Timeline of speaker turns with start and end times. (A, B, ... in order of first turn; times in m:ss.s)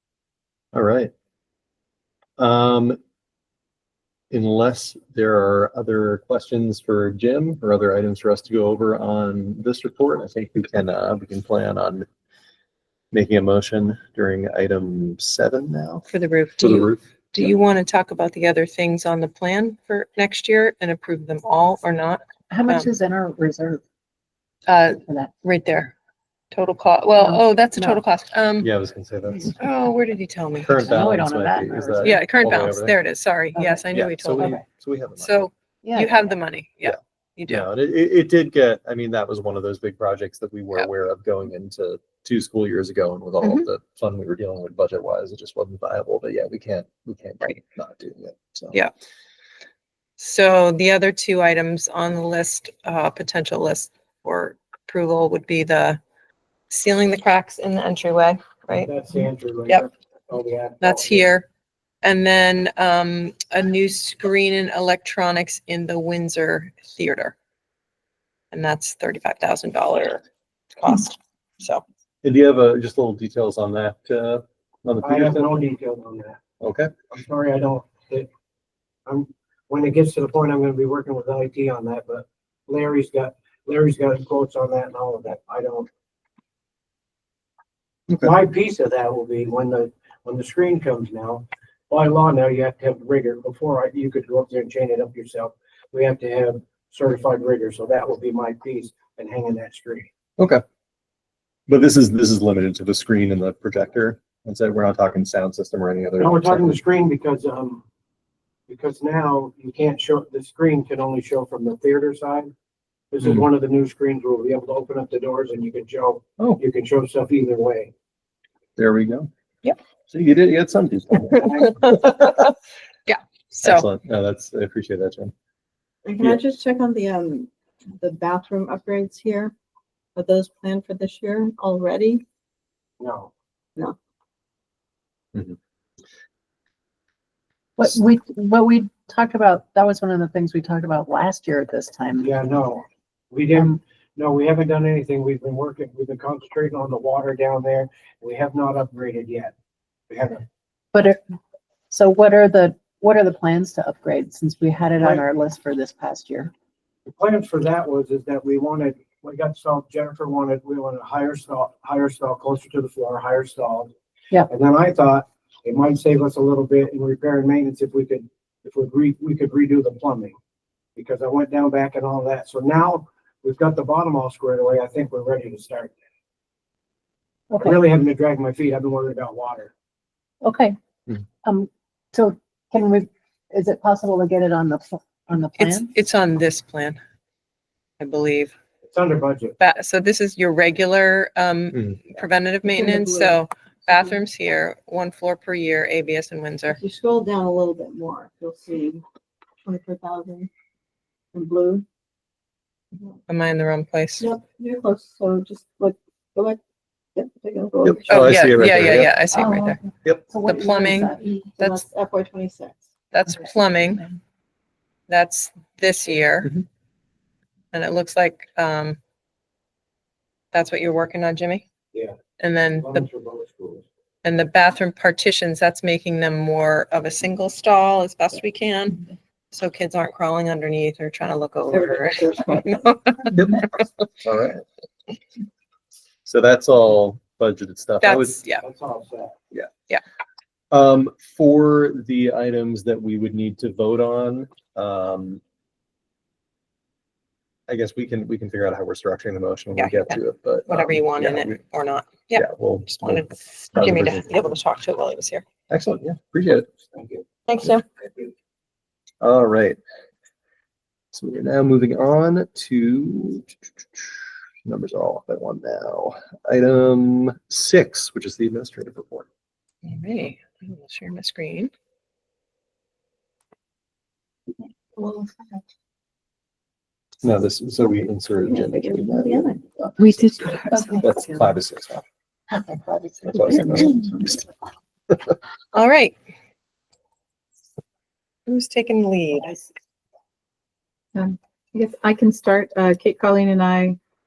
0:00.7-0:01.1 A
0:02.4-0:03.0 A
0:04.3-0:12.1 A
0:13.1-0:16.1 A
0:16.1-0:22.9 B
0:16.6-0:17.0 A
0:22.5-0:23.8 C
0:24.7-0:25.9 B
0:24.9-0:25.4 C
0:26.5-0:28.7 B
0:27.2-0:28.0 C
0:28.6-0:29.6 A
0:29.6-0:30.8 B
0:30.6-0:33.0 A
0:30.8-0:32.2 C
0:32.0-0:34.6 B
0:33.5-0:34.6 C
0:33.9-0:35.5 A
0:35.2-0:37.7 B
0:35.8-0:36.4 C
0:36.8-0:48.8 A
0:50.2-0:56.0 B
0:56.7-0:58.9 B
0:58.7-1:01.3 D
1:00.8-1:01.5 B
1:02.0-1:07.4 B
1:08.5-1:10.2 B
1:10.8-1:11.8 B
1:12.2-1:15.6 A
1:15.0-1:16.4 D
1:16.6-1:16.9 A
1:17.1-1:18.3 D
1:19.1-1:25.9 D
1:28.1-1:40.1 D
1:41.7-1:46.8 A
1:46.2-1:47.8 D
1:48.7-1:52.5 D
1:53.1-1:57.9 D
1:58.8-1:59.3 A
2:00.1-2:02.5 A
2:03.1-2:03.8 B
2:03.6-2:05.3 A
2:06.0-2:09.5 E
2:10.2-2:12.2 E
2:13.0-2:13.3 D
2:17.8-2:22.3 C
2:22.2-2:29.5 D
2:30.1-2:30.5 D
2:30.9-2:31.2 C
2:31.9-2:36.5 C
2:35.0-2:35.3 D
2:37.1-2:43.9 D
2:44.5-2:50.4 D
2:51.0-2:55.9 D
2:57.5-2:57.8 C
2:57.6-2:59.7 D
3:00.4-3:00.8 C
3:01.4-3:05.9 C
3:05.6-3:07.0 B
3:08.0-3:08.5 B
3:08.8-3:09.6 D
3:09.6-3:16.8 B
3:12.7-3:13.4 E
3:16.7-3:19.0 E
3:19.6-3:20.5 E
3:21.3-3:21.8 E
3:23.3-3:24.3 B
3:24.2-3:26.6 E
3:27.2-3:28.5 E
3:27.8-3:29.3 A
3:28.1-3:29.8 B
3:29.4-3:31.5 C
3:30.4-3:31.8 B
3:31.6-3:32.8 E
3:33.1-3:34.0 B
3:35.1-3:36.6 B
3:37.7-3:39.0 B
3:40.5-3:41.6 B
3:42.4-3:43.1 B
3:42.8-3:43.8 D
3:44.2-3:53.8 B
3:52.2-3:52.6 E
3:54.2-3:54.6 A
3:56.3-3:58.4 A
3:58.0-3:58.6 B
3:58.6-3:59.4 D
4:00.7-4:05.4 A
4:07.7-4:11.6 A
4:09.8-4:15.4 B
4:12.3-4:14.5 A
4:15.7-4:16.7 A
4:17.5-4:17.8 B
4:19.2-4:19.8 A
4:21.1-4:29.3 A
4:29.8-4:31.7 B
4:35.0-4:35.3 E
4:37.2-4:42.0 A
4:40.0-4:41.1 C
4:42.5-4:43.9 C
4:43.2-4:44.4 A
4:45.7-4:46.2 B
4:48.5-4:49.5 B
4:52.5-4:53.9 E